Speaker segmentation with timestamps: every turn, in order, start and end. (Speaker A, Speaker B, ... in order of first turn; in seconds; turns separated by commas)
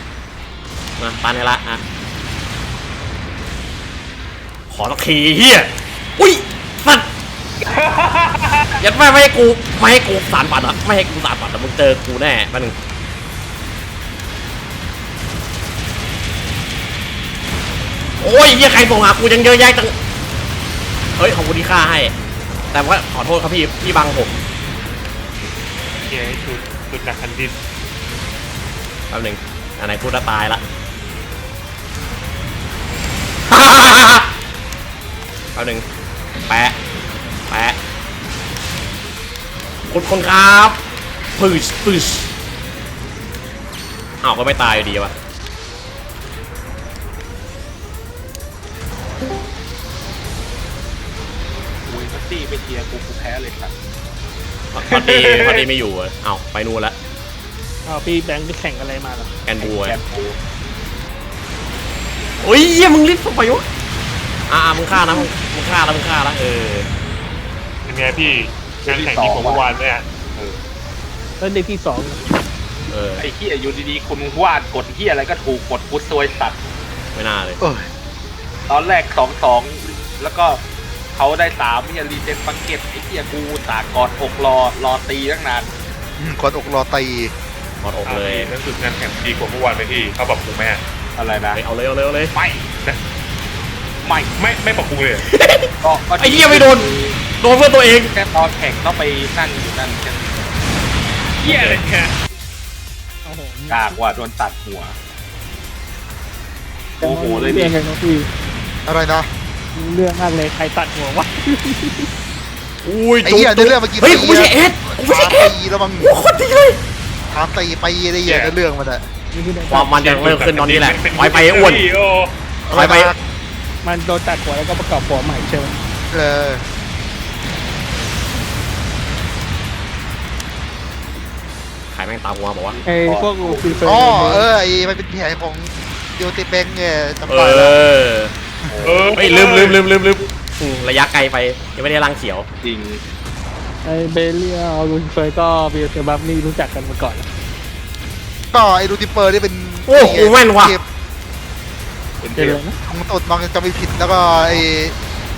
Speaker A: 1.0-1.8, Speaker A: 4.7-7.1, Speaker B: 7.6-8.8, Speaker A: 8.8-12.8, Speaker A: 18.2-19.9, Speaker A: 21.2-22.1, Speaker A: 22.7-24.3, Speaker C: 26.1-27.6, Speaker A: 29.1-30.6, Speaker A: 33.5-34.3, Speaker A: 35.5-35.9, Speaker A: 36.5-36.8, Speaker A: 37.5-37.8, Speaker A: 39.9-40.8, Speaker A: 41.4-42.3, Speaker A: 44.2-45.1, Speaker B: 51.9-53.7, Speaker A: 54.7-57.0, Speaker C: 54.9-55.7, Speaker D: 57.9-59.3, Speaker A: 59.5-60.0, Speaker B: 59.6-60.4, Speaker A: 62.4-63.6, Speaker A: 64.5-66.9, Speaker C: 67.8-70.0, Speaker B: 68.9-69.7, Speaker D: 71.4-72.3, Speaker A: 72.9-73.3, Speaker B: 73.2-76.6, Speaker A: 77.2-77.6, Speaker E: 77.6-77.9, Speaker B: 78.7-80.6, Speaker B: 81.1-85.7, Speaker E: 86.2-87.3, Speaker A: 87.8-88.5, Speaker C: 88.0-90.8, Speaker B: 91.2-91.6, Speaker A: 91.5-92.3, Speaker B: 92.3-92.7, Speaker B: 94.0-94.4, Speaker C: 94.4-95.3, Speaker A: 95.2-98.1, Speaker B: 95.8-97.2, Speaker B: 98.1-100.5, Speaker C: 101.4-102.1, Speaker A: 101.5-101.7, Speaker B: 101.5-101.8, Speaker D: 103.2-104.0, Speaker B: 103.7-105.0, Speaker D: 107.0-108.3, Speaker B: 107.0-107.8, Speaker E: 108.9-109.3, Speaker D: 109.7-112.1, Speaker A: 112.8-116.8, Speaker E: 113.2-116.1, Speaker E: 117.3-119.0, Speaker C: 118.3-118.5, Speaker D: 119.3-120.3, Speaker A: 119.7-121.8, Speaker C: 119.9-122.3, Speaker E: 122.7-123.2, Speaker A: 122.7-123.1, Speaker D: 123.8-125.8, Speaker E: 126.1-126.7, Speaker A: 131.9-132.8, Speaker B: 132.7-134.2, Speaker D: 132.9-134.4, Speaker E: 133.8-137.8, Speaker A: 137.3-138.3, Speaker B: 138.7-139.2, Speaker C: 138.8-139.8, Speaker A: 139.2-142.5, Speaker B: 142.6-143.0, Speaker D: 143.8-147.3, Speaker E: 148.5-150.8, Speaker A: 149.9-150.8, Speaker B: 152.2-152.6, Speaker D: 152.4-152.8, Speaker E: 152.9-154.9